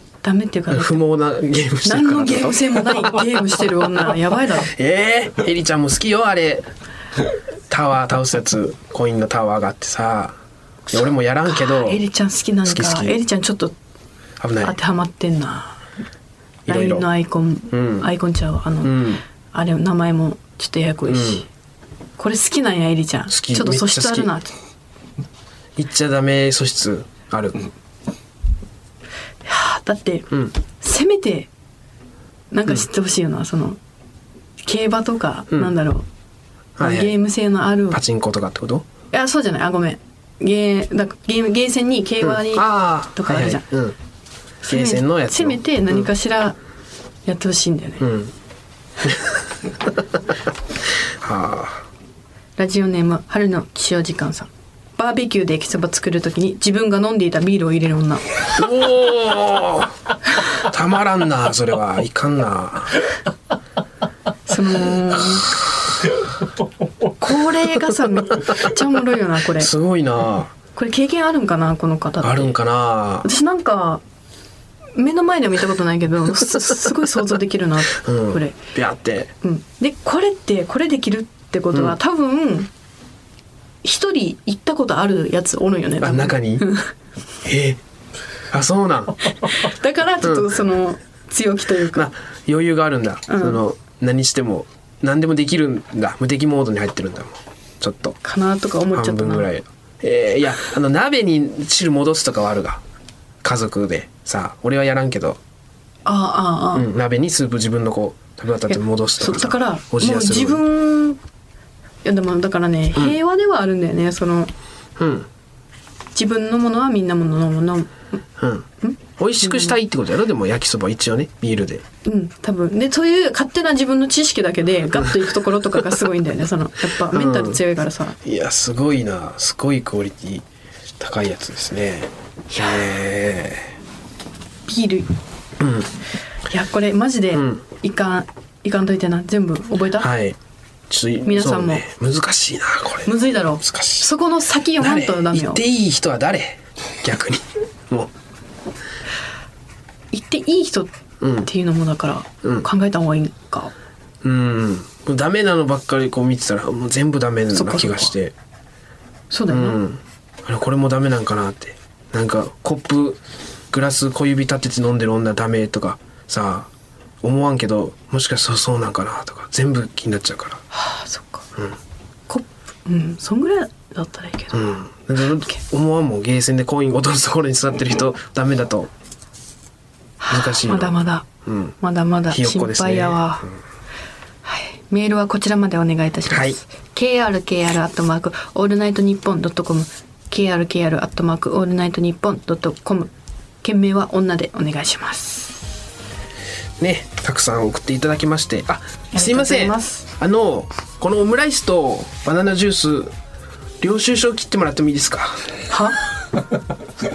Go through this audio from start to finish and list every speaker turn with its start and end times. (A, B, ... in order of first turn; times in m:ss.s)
0:00.2-0:01.0 A
0:00.7-0:03.6 B
0:01.8-0:04.7 A
0:04.6-0:06.6 B
0:07.7-0:10.4 B
0:10.9-0:12.0 B
0:11.5-0:13.7 A
0:12.6-0:13.2 B
0:14.4-0:14.7 B
0:14.6-0:15.8 A
0:16.7-0:21.5 A
0:16.7-0:17.1 B
0:17.7-0:18.1 B
0:18.8-0:19.2 B
0:21.1-0:21.4 B
0:22.2-0:24.5 A
0:23.3-0:24.3 B
0:25.8-0:27.7 B
0:29.4-0:31.5 A
0:32.5-0:33.8 A
0:34.6-0:36.0 A
0:36.8-0:37.1 B
0:36.8-0:38.0 A
0:37.9-0:38.8 B
0:39.1-0:43.6 A
0:42.2-0:43.9 B
0:44.6-0:46.6 A
0:44.6-0:46.1 B
0:47.2-0:48.0 A
0:48.0-0:48.3 B
0:49.0-0:49.4 B
0:51.2-0:51.8 B
0:52.6-0:58.4 A
0:58.6-0:59.9 B
1:00.6-1:03.0 B
1:04.5-1:05.6 A
1:07.2-1:09.7 A
1:09.6-1:10.5 B
1:10.7-1:12.6 A
1:12.2-1:13.3 B
1:13.2-1:14.0 A
1:14.9-1:18.6 A
1:17.9-1:19.3 B
1:19.4-1:22.7 A
1:23.8-1:26.9 A
1:26.0-1:26.6 B
1:27.4-1:27.8 B
1:28.5-1:29.2 B
1:29.5-1:32.0 A
1:30.2-1:30.5 B
1:31.9-1:38.2 B
1:33.3-1:33.6 A
1:38.2-1:39.5 A
1:38.9-1:42.8 B
1:43.4-1:45.4 B
1:46.0-1:46.9 A
1:46.7-1:50.6 B
1:48.7-1:51.2 A
1:52.0-1:54.5 A
1:55.0-1:55.3 B
1:56.1-1:58.0 A
1:58.4-2:01.8 B
1:58.8-1:59.8 A
2:02.0-2:08.2 A
2:07.1-2:07.6 B
2:08.2-2:10.4 B
2:11.0-2:13.7 B
2:14.6-2:15.1 A
2:15.6-2:15.9 B
2:16.5-2:20.1 A
2:17.3-2:17.6 B
2:20.0-2:20.4 B
2:20.9-2:24.1 B
2:21.2-2:21.8 A
2:23.0-2:25.6 A
2:24.8-2:28.1 B
2:30.1-2:30.9 A
2:31.2-2:31.5 B
2:31.4-2:33.7 A
2:34.2-2:38.3 B
2:37.5-2:38.1 A
2:39.3-2:39.8 A
2:39.5-2:43.2 B
2:43.7-2:46.7 B
2:47.2-2:50.6 B
2:50.7-2:51.5 A
2:52.3-2:54.7 A
2:54.5-2:58.9 B
3:00.2-3:01.2 A
3:00.3-3:01.8 B
3:01.8-3:03.4 A
3:02.3-3:03.6 B
3:04.4-3:13.1 A
3:06.3-3:06.6 B
3:13.6-3:15.7 A
3:16.8-3:23.1 B
3:19.1-3:20.1 A
3:23.8-3:25.5 B
3:25.7-3:26.0 A